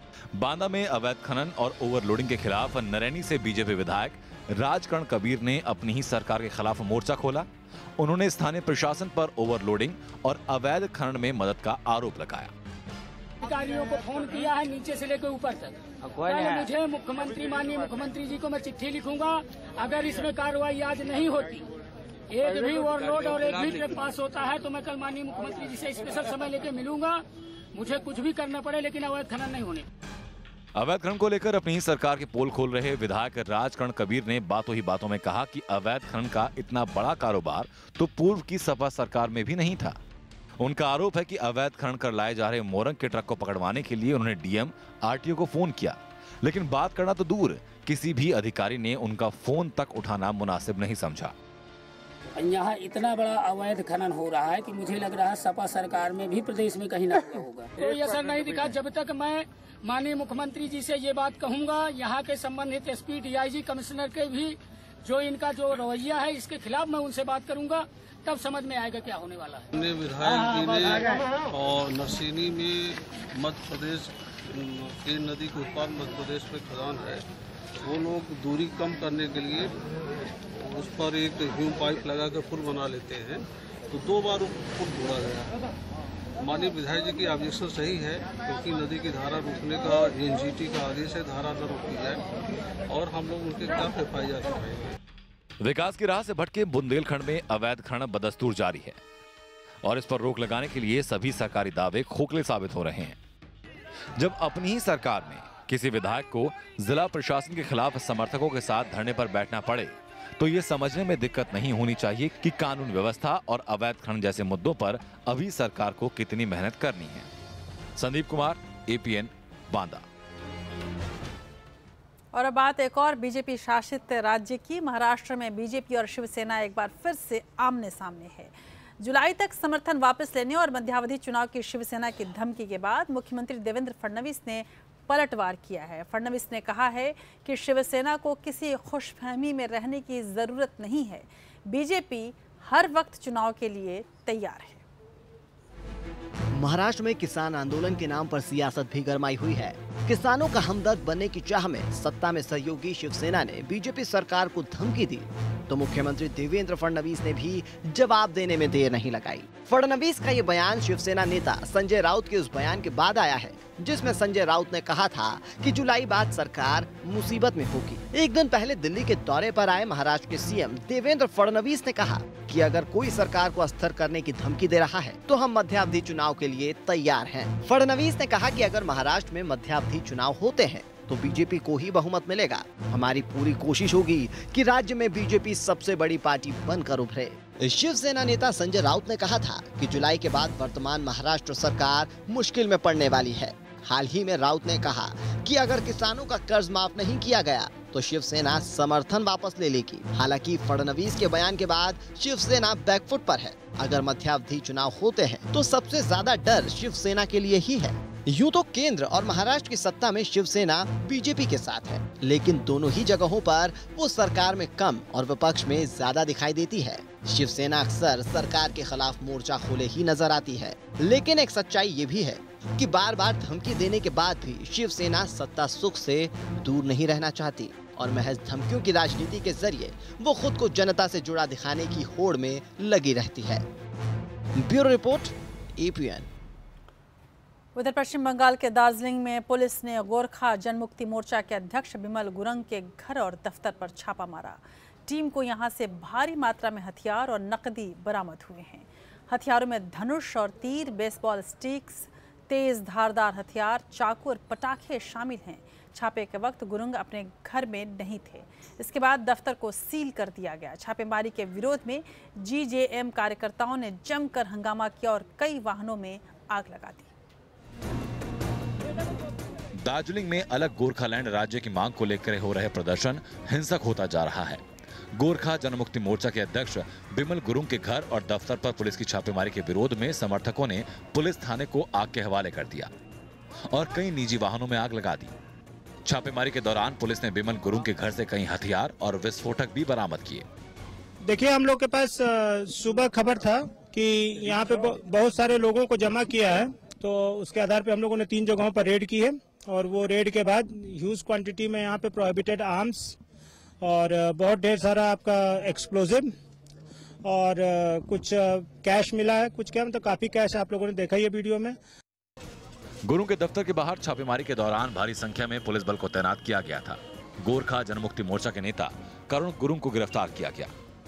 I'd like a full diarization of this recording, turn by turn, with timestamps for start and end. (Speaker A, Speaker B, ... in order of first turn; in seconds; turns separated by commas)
Speaker A: 0.3-12.5, Speaker B: 13.4-21.7, Speaker B: 22.3-27.2, Speaker B: 27.7-29.8, Speaker A: 30.8-40.0, Speaker A: 40.6-51.3, Speaker B: 52.4-69.7, Speaker C: 69.7-77.2, Speaker C: 77.8-79.7, Speaker C: 80.5-85.5, Speaker C: 86.4-92.2, Speaker C: 92.9-95.0, Speaker A: 95.6-99.0, Speaker A: 99.8-103.2, Speaker A: 104.2-117.3, Speaker A: 118.0-120.0, Speaker D: 122.3-144.8, Speaker E: 146.5-233.6, Speaker E: 234.6-236.3, Speaker D: 237.7-267.1, Speaker A: 269.8-274.6, Speaker A: 275.1-282.9, Speaker A: 283.7-285.3, Speaker A: 286.0-290.4, Speaker F: 291.2-303.2, Speaker F: 303.8-306.3, Speaker F: 307.2-311.8, Speaker A: 313.0-320.7